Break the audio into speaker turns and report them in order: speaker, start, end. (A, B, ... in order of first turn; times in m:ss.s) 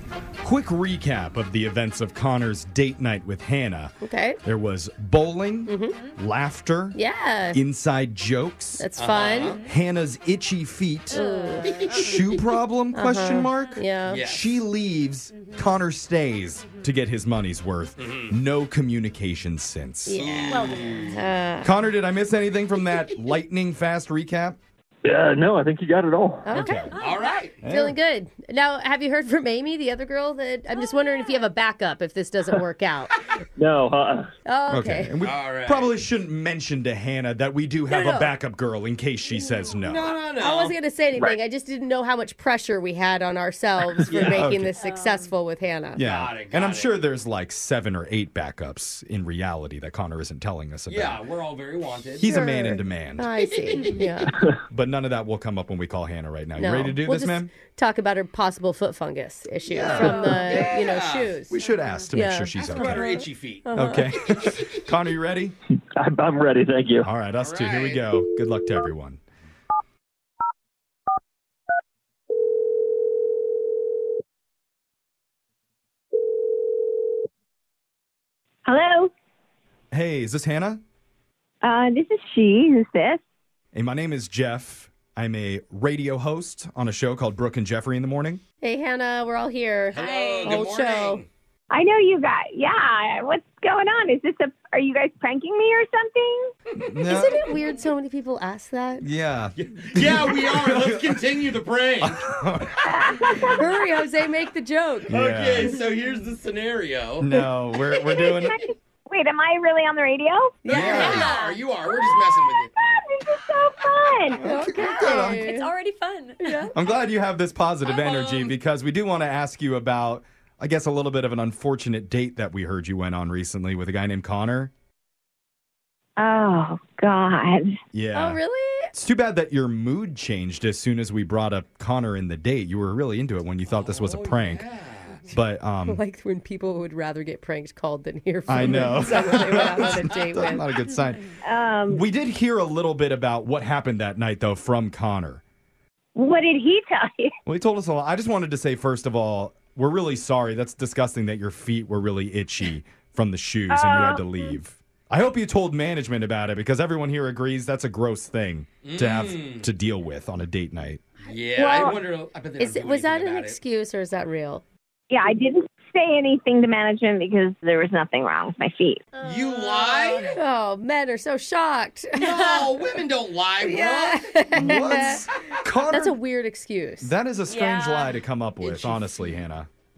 0:00.4-0:07.0 A
0:04.0-0:04.4 B
0:05.7-0:05.9 B
0:06.9-0:07.6 B
0:07.5-0:08.9 A
0:08.8-0:09.5 B
0:09.0-0:09.6 C
0:09.3-0:09.7 D
0:09.6-0:11.2 A
0:11.1-0:11.8 B
0:11.1-0:12.3 D
0:11.6-0:12.1 C
0:11.9-0:20.5 A
0:12.9-0:14.2 B
0:14.1-0:14.6 C
0:15.3-0:15.7 D
0:18.0-0:18.3 C
0:20.0-0:21.7 B
0:20.2-0:21.2 C
0:20.7-0:21.1 D
0:21.6-0:24.6 A
0:25.0-0:26.5 E
0:26.4-0:26.9 B
0:26.5-0:27.0 A
0:26.9-0:27.4 D
0:27.0-0:27.6 C
0:27.6-0:28.0 A
0:27.6-0:33.1 B
0:30.8-0:31.4 D
0:33.6-0:34.3 E
0:34.4-0:35.1 B
0:34.7-0:40.2 A
0:35.2-0:35.9 C
0:37.9-0:38.3 B
0:39.8-0:41.3 C
0:40.4-0:46.0 B
0:44.0-0:44.4 C
0:44.1-0:44.8 A
0:44.8-0:45.3 D
0:45.9-0:51.2 A
0:46.0-0:46.9 C
0:50.9-0:52.4 C
0:52.2-0:53.3 A
0:52.2-0:54.4 B
0:54.7-0:57.5 A
0:56.6-1:01.5 B
0:59.7-1:01.3 C
0:59.8-1:00.3 A
0:59.9-1:00.7 D
1:01.5-1:03.1 A
1:01.6-1:02.1 D
1:02.1-1:04.1 B
1:02.7-1:03.7 C
1:03.7-1:05.6 A
1:06.0-1:07.1 E
1:07.0-1:09.2 A
1:07.4-1:08.0 C
1:18.7-1:19.1 F
1:19.9-1:20.8 A
1:21.6-1:23.2 F
1:23.7-1:28.4 A
1:28.6-1:31.2 B
1:29.9-1:31.3 C
1:29.9-1:30.6 D
1:31.7-1:36.4 F
1:36.8-1:37.4 A
1:37.0-1:39.0 B
1:39.0-1:41.4 A
1:39.6-1:42.2 C
1:42.0-1:42.8 A
1:43.5-1:45.1 B
1:45.1-1:45.8 A
1:45.1-1:47.3 C
1:47.2-1:48.6 A
1:49.1-1:50.5 F
1:50.6-1:51.1 B
1:50.6-1:52.7 C
1:50.7-1:51.3 A
1:50.8-1:51.6 D
1:53.5-1:54.3 F
1:54.4-1:55.5 A
1:54.4-1:55.7 B
1:54.8-1:56.7 D
1:56.4-1:56.7 B
1:56.7-2:04.7 A
1:58.0-1:58.5 D
2:06.2-2:07.7 F
2:07.9-2:08.4 A
2:08.1-2:08.9 B
2:08.9-2:14.6 A
2:13.7-2:15.3 C
2:15.3-2:16.0 A
2:15.8-2:20.6 B
2:18.5-2:21.3 A
2:19.0-2:20.0 C
2:21.5-2:22.0 F
2:21.8-2:25.4 A
2:26.2-2:27.3 F
2:27.4-2:41.0 A
2:33.8-2:34.2 F
2:38.8-2:39.7 C
2:41.2-2:43.6 C
2:42.6-2:44.6 B
2:45.1-2:49.0 F
2:49.2-2:50.3 C
2:49.3-2:49.8 B
2:49.4-2:50.3 D
2:50.3-2:52.5 B
2:52.2-2:54.5 C
2:53.6-2:55.2 B
2:54.6-2:56.2 A
2:55.9-2:57.1 B
2:57.0-2:59.7 A
2:57.5-2:58.2 D
2:58.6-2:59.0 C